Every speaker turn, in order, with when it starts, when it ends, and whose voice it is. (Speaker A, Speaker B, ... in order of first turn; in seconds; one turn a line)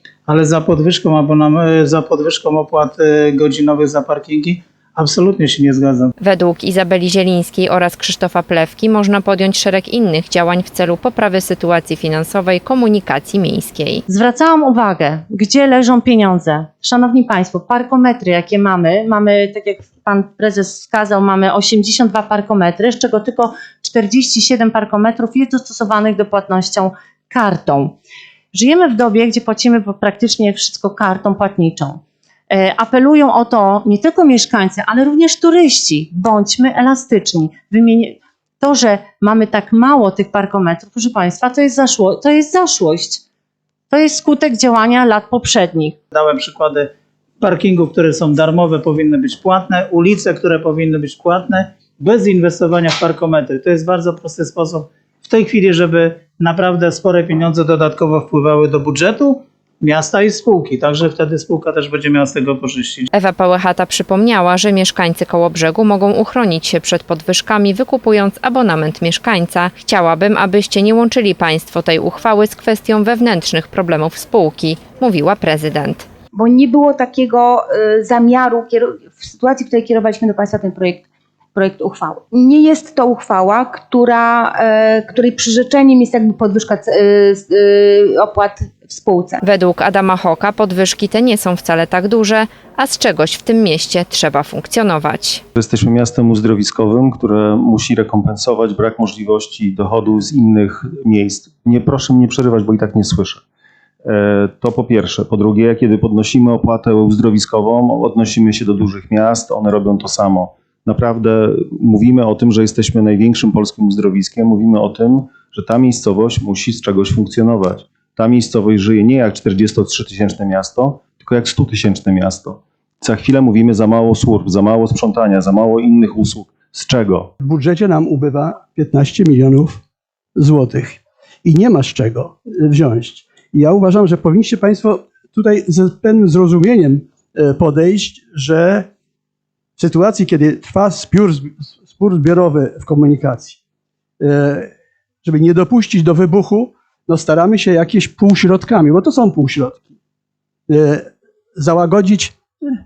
Speaker A: 0.3-6.1
Speaker B: 6.2-14.0
Speaker C: 14.1-27.9
Speaker C: 28.5-32.0
Speaker C: 32.5-43.2
Speaker C: 43.9-46.0
Speaker A: 46.1-46.8
Speaker A: 47.4-63.0
Speaker B: 63.1-76.0
Speaker D: 76.3-89.4
Speaker B: 89.4-95.4
Speaker E: 95.5-103.4
Speaker E: 104.0-127.3
Speaker F: 127.4-129.8
Speaker F: 130.4-138.8
Speaker F: 139.8-141.5
Speaker F: 142.0-143.5
Speaker F: 144.3-144.7
Speaker F: 145.3-146.7
Speaker F: 147.2-149.7
Speaker F: 150.7-151.1
Speaker F: 151.6-152.3